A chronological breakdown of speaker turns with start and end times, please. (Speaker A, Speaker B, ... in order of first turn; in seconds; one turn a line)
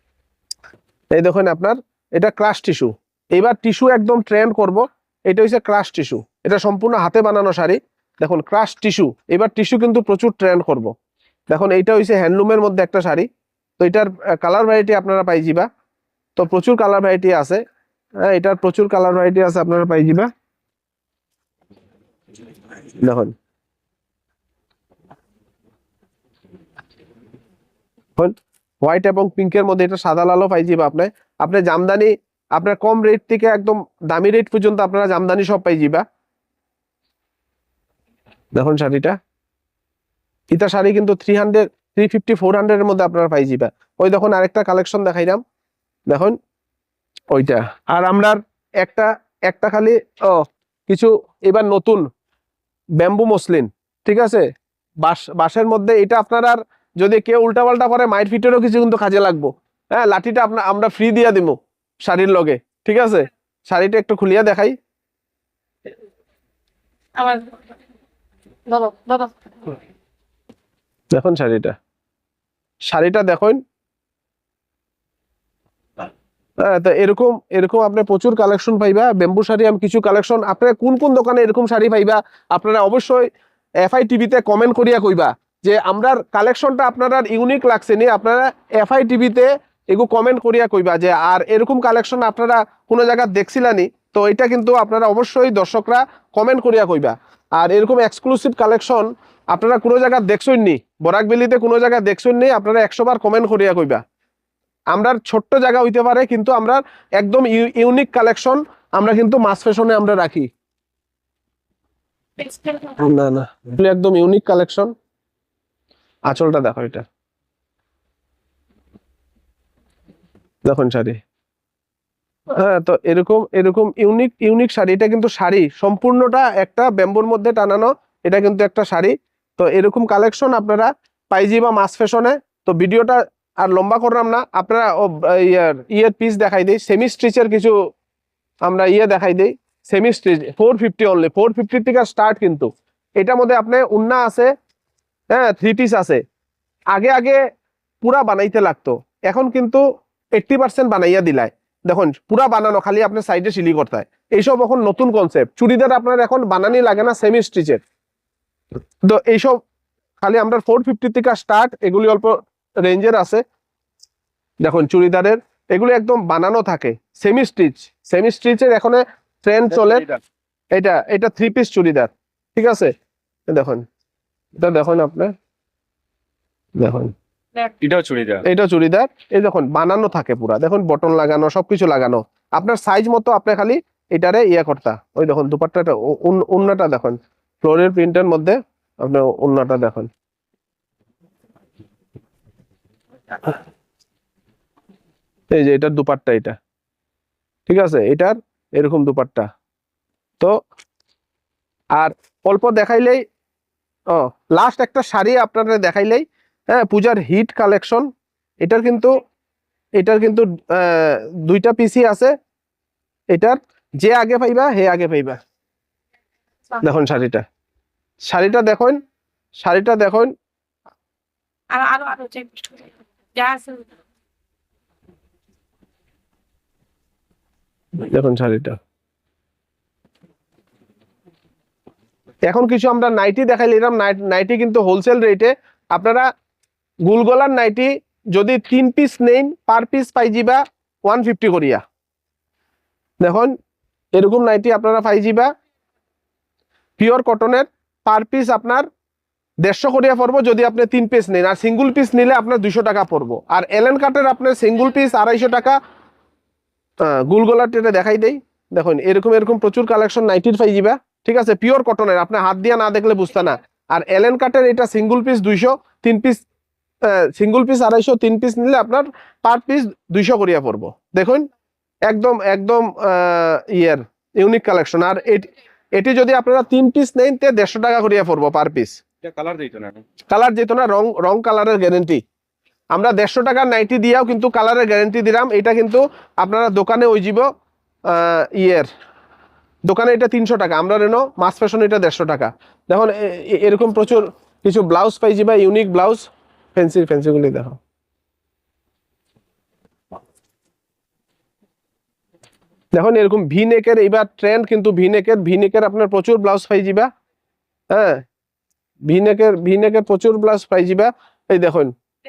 Speaker A: 1.1-10.9
Speaker A: 11.5-13.3
Speaker A: 13.8-15.7
Speaker A: 16.4-17.6
Speaker A: 18.2-20.3
Speaker A: 23.0-23.3
Speaker A: 28.2-36.0
Speaker A: 38.6-39.2
Speaker A: 40.5-45.4
Speaker A: 46.1-46.4
Speaker A: 47.3-52.1
Speaker A: 53.0-54.5
Speaker A: 55.0-64.8
Speaker B: 67.2-67.5
Speaker B: 68.7-69.7
Speaker A: 71.1-71.8
Speaker A: 72.9-73.6
Speaker A: 76.6-83.3
Speaker A: 83.8-104.0
Speaker A: 104.9-110.5
Speaker B: 112.4-113.0
Speaker A: 113.0-114.9
Speaker A: 116.3-117.0
Speaker A: 120.7-121.2
Speaker A: 122.6-137.7
Speaker A: 138.7-144.5
Speaker A: 145.3-146.2
Speaker A: 146.9-147.4
Speaker A: 148.0-149.8
Speaker A: 150.3-157.8
Speaker A: 159.0-159.6
Speaker A: 160.2-163.4
Speaker A: 164.6-170.1
Speaker C: 169.8-170.2
Speaker A: 170.7-172.9
Speaker A: 173.5-173.8
Speaker A: 174.6-175.3
Speaker A: 176.8-177.1
Speaker C: 177.8-178.4
Speaker A: 178.4-190.1
Speaker A: 195.5-196.6
Speaker A: 197.7-199.5
Speaker A: 201.9-203.2
Speaker A: 204.1-208.1
Speaker A: 208.6-209.2
Speaker A: 210.0-212.3
Speaker A: 213.3-215.4
Speaker A: 216.8-217.4
Speaker A: 218.2-219.0
Speaker A: 219.6-220.3
Speaker B: 221.7-223.9
Speaker A: 228.0-228.8
Speaker A: 232.5-236.3
Speaker A: 237.1-241.8
Speaker A: 243.2-243.5
Speaker A: 244.2-245.5
Speaker A: 247.0-248.9
Speaker A: 249.6-255.8
Speaker A: 257.0-266.4
Speaker A: 267.0-271.5
Speaker A: 272.1-279.0
Speaker C: 279.2-280.0
Speaker A: 280.3-282.2
Speaker A: 282.9-287.5
Speaker A: 288.1-288.9
Speaker A: 289.9-297.8
Speaker A: 302.9-307.1
Speaker A: 307.9-308.2
Speaker A: 309.1-311.9